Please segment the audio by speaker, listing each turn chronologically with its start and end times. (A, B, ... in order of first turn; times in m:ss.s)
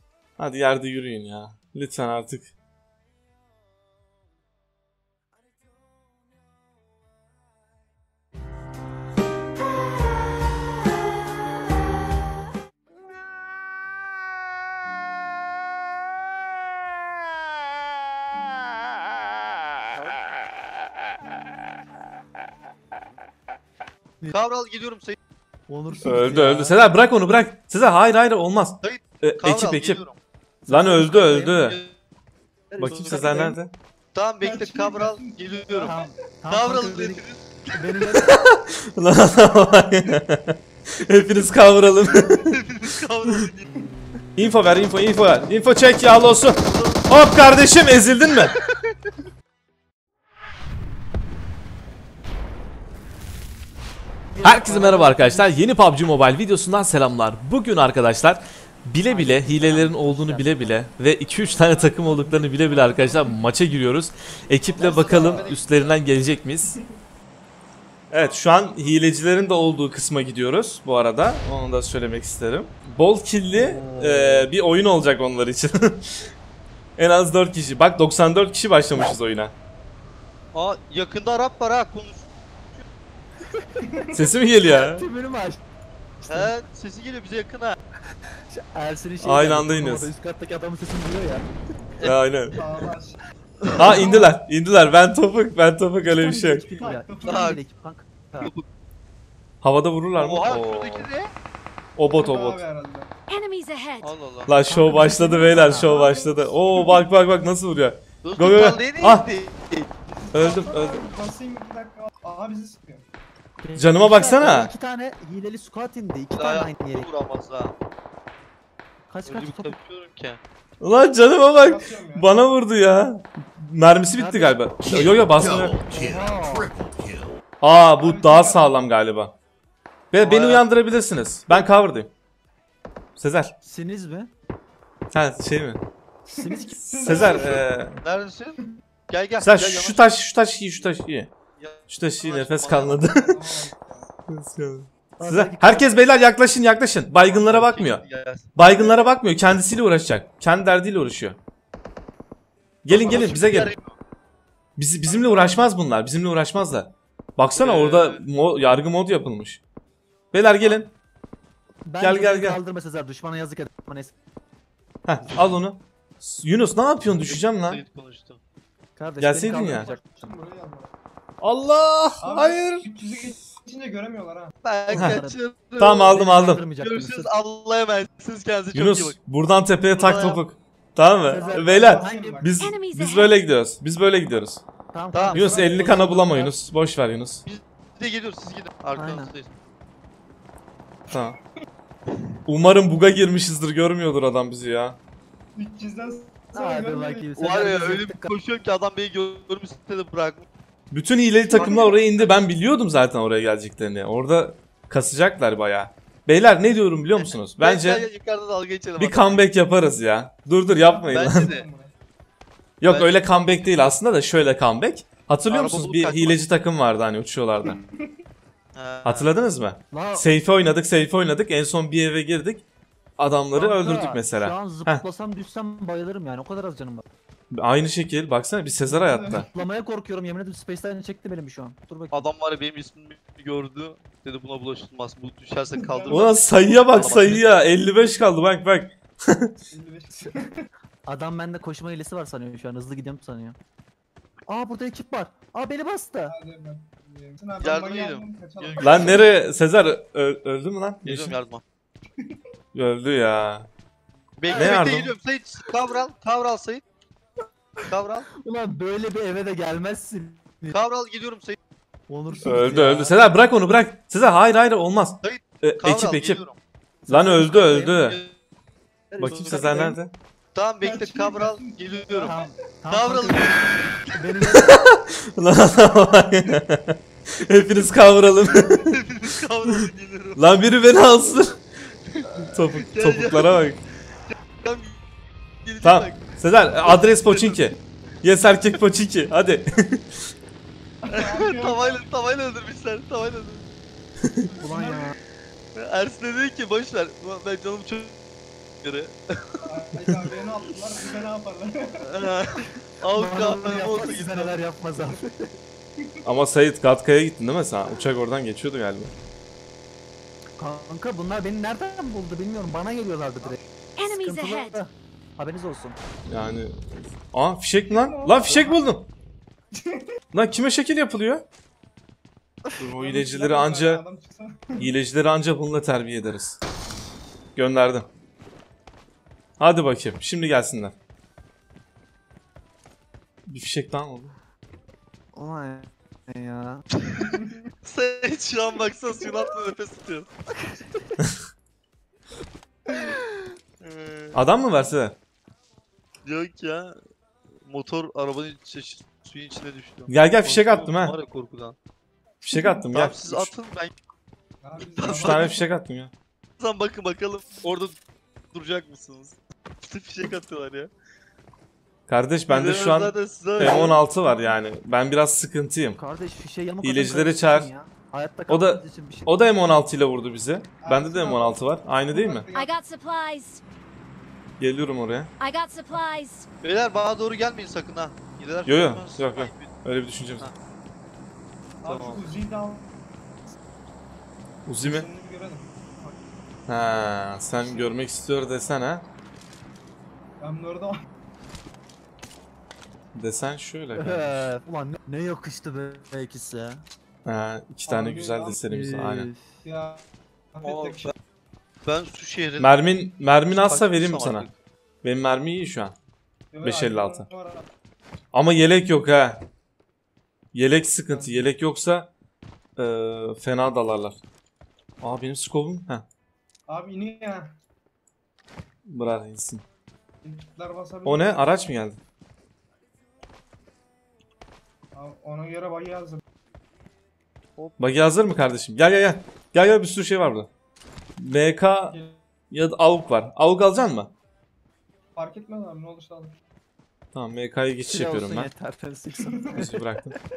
0:00.4-0:02.5 A
0:24.3-0:25.2 B
0:25.7-0:26.8 C
0:26.0-0:30.0 A
0:28.8-0:30.2 B
0:30.7-0:31.6 C
0:30.7-0:31.8 A
0:31.4-0:31.9 B
0:32.7-0:33.6 C
0:32.8-0:33.8 A
0:32.8-0:33.4 B
0:34.1-0:35.9 B
0:34.4-0:36.3 D
0:35.8-0:38.4 C
0:36.5-0:37.8 B
0:38.1-0:42.6 A
0:42.5-0:43.8 B
0:44.4-0:48.6 A
0:46.6-0:47.1 B
0:54.3-0:55.5 C
0:54.4-1:06.8 A
0:59.0-1:00.8 C
1:01.4-1:03.4 D
1:04.8-1:06.0 B
1:04.8-1:05.6 D
1:05.0-1:05.4 C
1:08.1-1:16.2 A
1:13.5-1:14.5 C
1:17.0-1:19.5 A
1:20.5-1:22.8 B
1:23.8-1:24.3 D
1:24.1-1:25.0 A
1:24.7-1:25.6 C
1:26.2-1:26.5 C
1:26.3-1:27.8 B
1:28.5-1:31.4 C
1:29.2-1:30.1 A
1:32.0-1:32.6 A
1:32.5-1:33.2 D
1:33.8-1:36.6 A
1:33.8-1:34.3 D
1:36.2-1:38.5 C
1:36.8-1:37.6 D
1:37.2-1:37.6 B
1:38.4-1:38.6 B
1:39.6-1:41.1 A
1:40.1-1:41.3 B
1:42.0-1:42.6 A
1:42.1-1:43.1 D
1:43.3-1:44.1 E
1:44.0-1:44.5 B
1:44.5-1:49.2 A
1:44.7-1:46.0 C
1:45.9-1:47.0 D
1:48.2-1:49.9 B
1:50.0-1:53.0 D
1:50.3-1:51.0 A
1:53.6-1:57.1 C
1:53.8-1:54.7 A
1:56.3-1:57.7 B
1:59.1-1:59.7 C
1:59.2-2:00.4 B
2:00.8-2:05.8 A
2:01.5-2:02.3 D
2:04.2-2:04.6 C
2:05.8-2:06.7 C
2:07.6-2:09.3 A
2:08.0-2:08.7 D
2:10.1-2:12.1 A
2:10.2-2:10.6 B
2:13.2-2:13.5 A
2:13.6-2:14.3 C
2:15.1-2:15.8 A
2:16.3-2:17.3 C
2:16.3-2:17.6 D
2:17.0-2:18.0 A
2:18.0-2:18.6 B
2:19.1-2:20.1 B
2:19.4-2:21.3 A
2:21.6-2:23.2 B
2:21.9-2:23.4 A
2:23.2-2:24.1 D
2:24.3-2:28.0 A
2:25.2-2:26.0 C
2:27.2-2:28.5 B
2:28.5-2:31.4 A
2:28.6-2:29.1 D
2:32.8-2:33.7 A
2:32.9-2:33.9 B
2:33.0-2:33.3 D
2:34.8-2:39.6 A
2:35.1-2:35.6 D
2:37.6-2:38.2 B
2:40.3-2:40.9 A
2:41.8-2:44.1 C
2:42.0-2:42.6 A
2:45.0-2:47.8 A
2:47.2-2:48.4 B
2:49.0-2:50.3 C
2:49.2-2:49.9 A
2:49.6-2:50.9 D
2:51.4-2:52.9 A
2:52.2-2:54.5 D
2:54.6-2:59.2 B
2:54.9-2:57.3 C
2:54.9-2:55.2 A
2:55.8-2:56.6 A
2:58.7-3:04.6 A
3:00.0-3:00.4 B
3:01.3-3:02.4 C
3:01.3-3:02.6 D
3:02.6-3:03.3 E
3:04.9-3:06.5 C
3:05.1-3:05.4 B
3:05.3-3:07.4 A
3:05.4-3:06.2 D
3:07.4-3:09.5 B
3:09.0-3:09.3 C
3:11.1-3:11.4 A
3:12.4-3:15.0 A
3:15.6-3:17.3 D
3:16.5-3:18.3 C
3:17.4-3:20.4 B
3:20.9-3:28.0 A
3:21.5-3:22.0 D
3:21.6-3:22.3 B
3:27.2-3:29.4 B
3:29.0-3:31.5 A
3:30.8-3:31.9 D
3:31.1-3:31.7 B
3:32.8-3:37.8 A
3:32.8-3:33.6 B
3:35.5-3:36.4 B
3:37.6-3:38.1 D
3:38.7-3:39.3 B
3:39.0-3:42.6 A
3:39.9-3:40.3 C
3:43.2-3:45.0 A
3:43.5-3:47.0 C
3:47.5-3:49.5 A
3:48.9-3:49.5 D
3:49.5-3:52.3 C
3:52.1-3:57.4 B
3:55.8-3:56.3 D
3:56.1-3:59.5 A
3:56.9-3:57.5 C
3:59.7-4:00.7 D
4:01.1-4:03.6 C
4:04.5-4:06.3 C
4:06.3-4:09.3 D
4:07.6-4:09.2 B
4:08.8-4:11.3 A
4:11.0-4:11.6 B
4:12.7-4:13.7 A
4:14.4-4:16.8 B
4:14.5-4:14.8 D
4:14.5-4:15.1 A
4:17.9-4:18.3 B
4:18.4-4:20.8 C
4:20.7-4:21.6 B
4:22.1-4:23.2 C
4:22.4-4:26.4 A
4:25.2-4:26.6 B
4:27.1-4:28.0 C
4:27.1-4:28.2 A
4:27.8-4:28.3 B
4:29.1-4:30.0 C
4:29.2-4:30.1 A
4:29.2-4:29.8 B
4:30.5-4:32.3 B
4:30.8-4:32.7 D
4:32.2-4:33.6 C
4:32.9-4:34.2 B
4:34.1-4:34.8 C
4:34.5-4:39.0 A
4:38.5-4:40.6 B
4:40.4-4:41.6 A
4:42.1-4:43.6 B
4:42.5-4:43.8 A
4:44.6-4:45.0 B
4:45.6-4:46.2 B
4:45.8-4:50.2 A
4:46.9-4:47.6 B
4:51.0-4:52.0 D
4:51.1-4:53.7 B
4:54.4-4:55.2 D
4:54.6-4:55.2 C
4:55.7-4:58.2 B
4:58.8-4:59.6 B
4:59.6-5:02.2 D
5:02.0-5:04.5 B
5:03.1-5:05.5 C
5:06.2-5:09.1 A
5:10.6-5:16.0 C
5:14.0-5:14.8 E
5:16.3-5:19.1 A
5:17.8-5:18.8 D
5:19.7-5:20.1 D
5:20.3-5:21.4 A
5:22.8-5:24.0 A
5:23.0-5:24.9 D
5:24.8-5:26.6 A
5:27.6-5:28.1 A
5:29.6-5:30.9 A
5:33.5-5:34.4 A
5:35.3-5:36.8 C
5:37.2-5:37.6 D
5:37.8-5:40.3 B
5:42.9-5:43.2 B
5:43.8-5:44.4 B
5:44.3-5:45.2 A
5:46.2-5:47.0 B
5:47.6-5:51.7 B
5:50.1-5:51.2 A
5:52.4-5:53.5 A
5:52.9-5:53.9 B
5:54.6-5:55.6 D
5:55.0-5:55.5 B
5:55.1-5:56.1 A
5:56.6-5:58.0 B
5:58.5-6:00.9 B
6:02.1-6:06.0 A
6:02.5-6:04.0 B
6:03.6-6:04.0 D
6:06.0-6:09.3 C
6:06.8-6:07.7 A
6:08.5-6:12.5 A
6:10.8-6:12.7 D
6:12.5-6:13.6 E
6:14.6-6:15.3 A
6:15.4-6:16.5 E
6:16.6-6:19.7 B
6:18.6-6:20.5 A
6:21.8-6:23.0 D
6:21.8-6:22.3 B
6:24.6-6:25.1 A
6:24.8-6:26.2 D
6:26.7-6:29.0 A
6:30.4-6:31.0 D
6:33.1-6:34.5 A
6:33.9-6:36.8 C
6:37.2-6:39.3 A
6:37.9-6:38.6 D
6:38.6-6:39.5 C
6:39.6-6:41.1 D
6:40.6-6:41.1 B
6:41.8-6:42.8 B
6:42.6-6:44.5 A
6:43.5-6:44.5 B
6:45.0-6:45.9 A
6:46.5-6:47.7 D
6:46.6-6:47.3 A
6:48.3-6:49.4 A
6:50.5-6:52.1 A
6:51.1-6:51.5 D
6:52.8-6:54.2 A
6:55.0-6:56.0 A
6:56.7-6:57.6 D
6:58.9-6:59.6 A
7:00.2-7:01.5 D
7:01.0-7:02.0 A
7:04.9-7:06.2 D
7:07.8-7:10.5 A
7:11.2-7:12.0 A
7:11.9-7:12.2 D
7:12.5-7:14.1 A
7:15.1-7:16.3 D
7:17.1-7:18.5 A
7:17.9-7:20.1 C
7:19.2-7:19.6 D
7:19.5-7:20.2 A